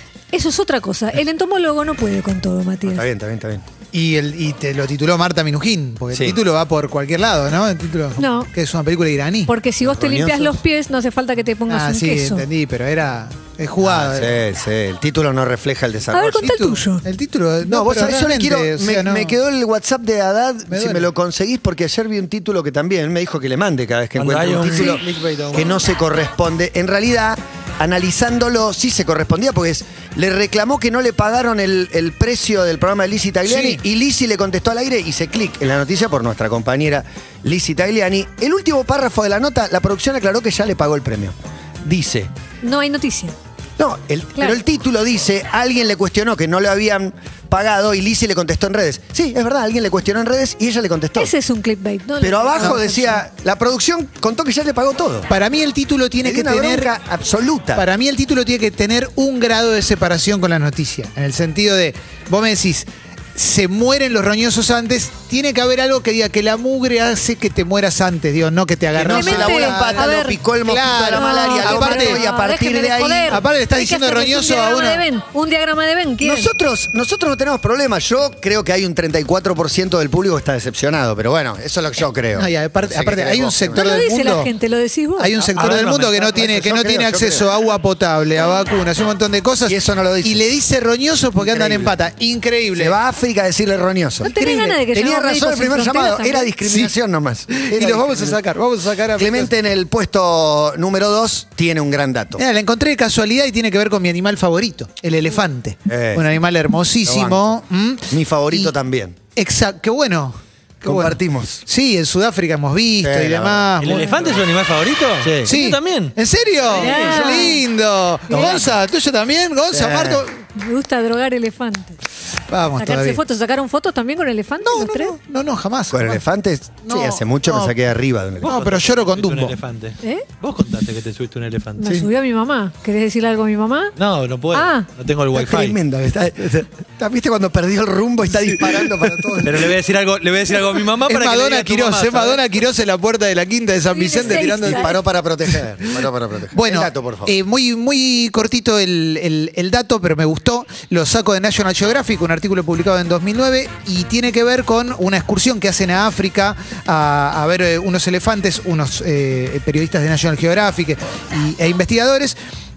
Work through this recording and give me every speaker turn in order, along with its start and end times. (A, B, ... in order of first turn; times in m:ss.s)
0:00.3-0:03.0 A
0:02.8-0:03.6 B
0:03.9-0:09.5 C
0:08.2-0:08.5 A
0:09.5-0:12.4 A
0:09.8-0:10.6 B
0:11.7-0:14.4 C
0:13.8-0:16.5 B
0:16.1-0:17.0 A
0:16.4-0:19.4 C
0:17.6-0:42.3 B
0:20.7-0:21.1 C
0:24.2-0:25.7 D
0:33.4-0:33.8 C
0:42.6-0:43.4 A
0:43.8-0:51.3 B
0:51.2-0:53.2 A
0:52.2-0:55.3 B
0:55.3-0:56.9 C
0:56.2-0:57.8 B
0:57.7-1:12.2 C
1:08.9-1:13.4 B
1:09.1-1:10.4 A
1:11.0-1:16.5 A
1:13.3-1:15.0 C
1:16.2-1:23.9 B
1:22.3-1:24.5 C
1:23.7-1:25.3 A
1:25.2-1:33.0 C
1:25.5-1:26.3 D
1:25.6-1:27.4 B
1:29.6-1:30.4 B
1:31.4-1:32.0 B
1:32.7-1:38.4 B
1:34.2-1:36.5 A
1:36.6-1:36.9 C
1:37.5-1:39.5 C
1:39.2-1:42.4 B
1:42.4-1:48.7 C
1:45.9-1:46.4 B
1:47.0-1:47.6 B
1:48.1-1:49.2 B
1:49.4-1:54.4 C
1:50.8-1:51.6 B
1:53.0-1:53.7 B
1:53.8-1:56.1 D
1:55.2-1:55.5 B
1:55.4-2:00.4 C
1:56.7-1:57.4 B
1:56.8-1:57.6 A
1:58.3-1:58.6 A
1:58.3-1:58.7 B
1:59.7-2:00.2 B
2:00.5-2:02.0 A
2:02.5-2:03.2 C
2:02.8-2:05.1 A
2:04.6-2:06.2 C
2:05.9-2:08.5 B
2:06.8-2:07.8 C
2:08.4-2:09.6 C
2:08.4-2:12.0 D
2:11.8-2:13.9 A
2:14.0-2:15.8 D
2:14.5-2:14.9 A
2:15.3-2:19.7 B
2:18.7-2:19.4 C
2:19.4-2:22.4 D
2:21.0-2:42.4 C
2:23.9-2:24.9 A
2:24.2-2:27.3 B